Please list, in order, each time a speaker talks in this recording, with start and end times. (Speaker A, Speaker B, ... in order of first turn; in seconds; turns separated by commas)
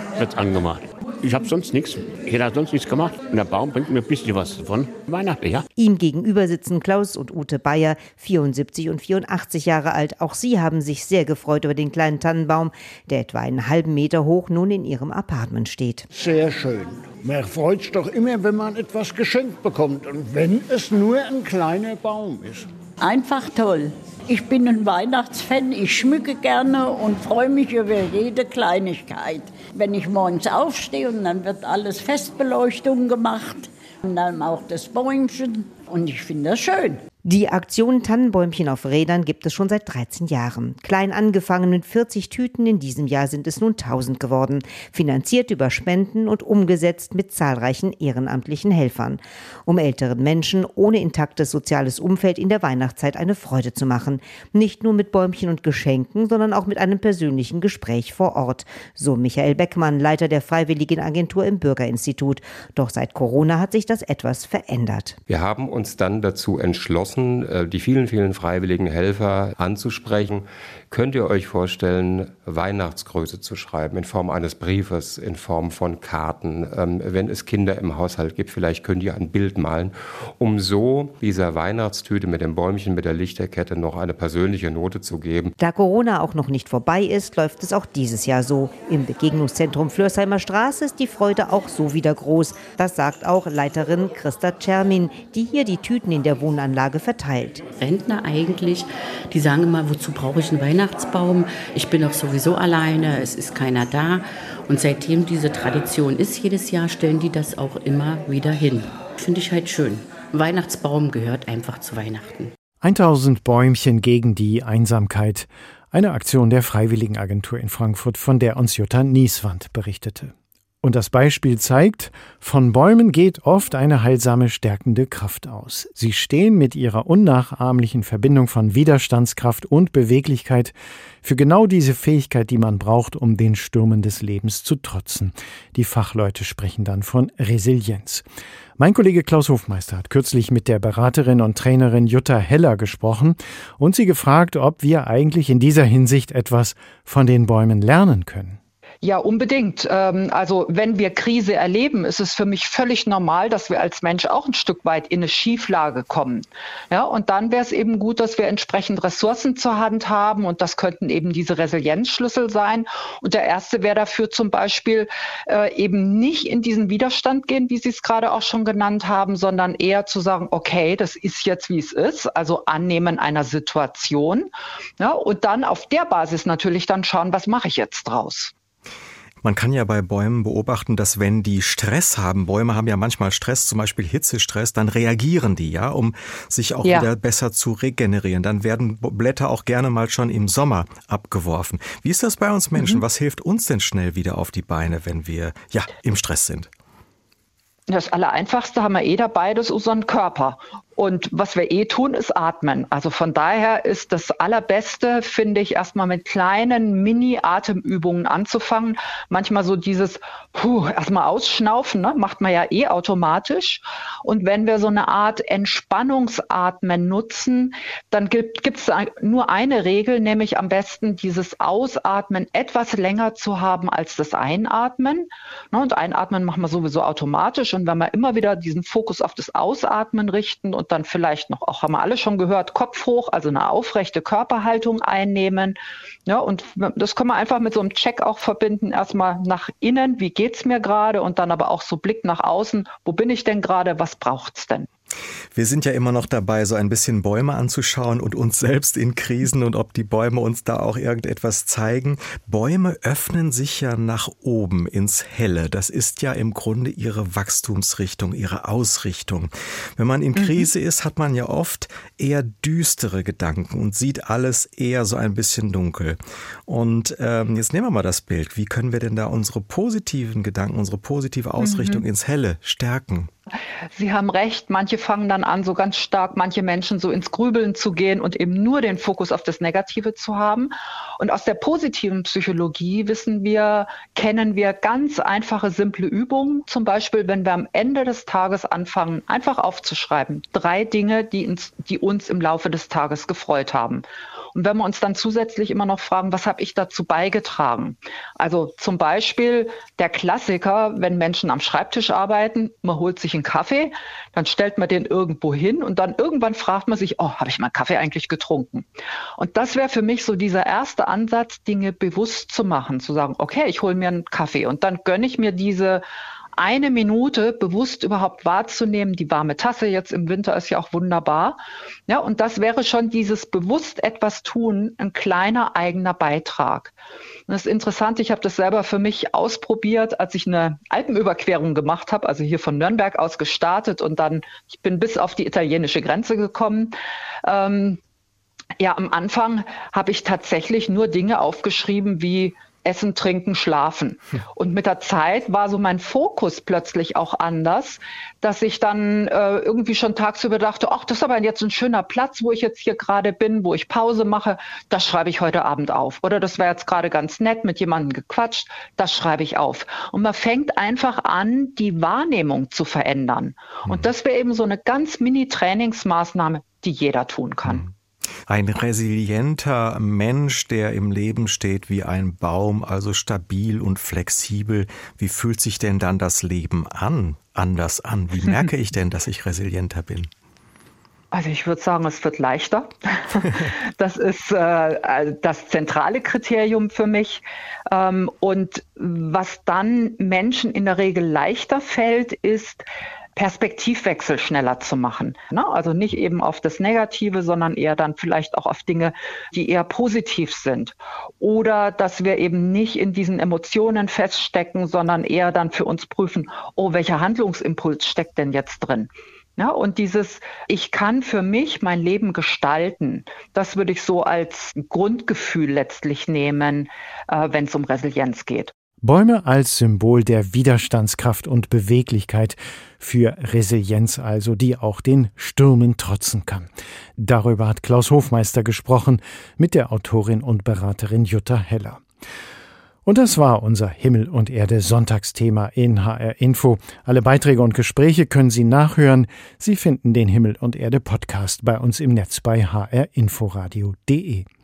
Speaker A: 0.2-5.7, Speaker B: 5.8-16.1, Speaker C: 16.1-22.7, Speaker D: 23.0-37.0, Speaker B: 37.2-65.2, Speaker E: 65.3-85.5, Speaker B: 85.6-97.7, Speaker F: 97.7-112.5, Speaker G: 112.8-138.2, Speaker G: 138.8-148.6, Speaker H: 149.0-178.5, Speaker I: 179.4-196.7, Speaker H: 197.9-244.9, Speaker I: 245.5-273.3, Speaker H: 260.4-260.7, Speaker H: 271.6-272.1, Speaker H: 273.9-308.9, Speaker H: 309.4-316.0, Speaker H: 316.6-326.9, Speaker H: 327.5-336.9, Speaker H: 337.4-338.0, Speaker H: 338.8-367.8, Speaker I: 367.6-367.9, Speaker I: 368.5-380.3, Speaker H: 381.3-392.8, Speaker H: 393.4-418.7, Speaker G: 419.0-432.0, Speaker G: 433.1-444.5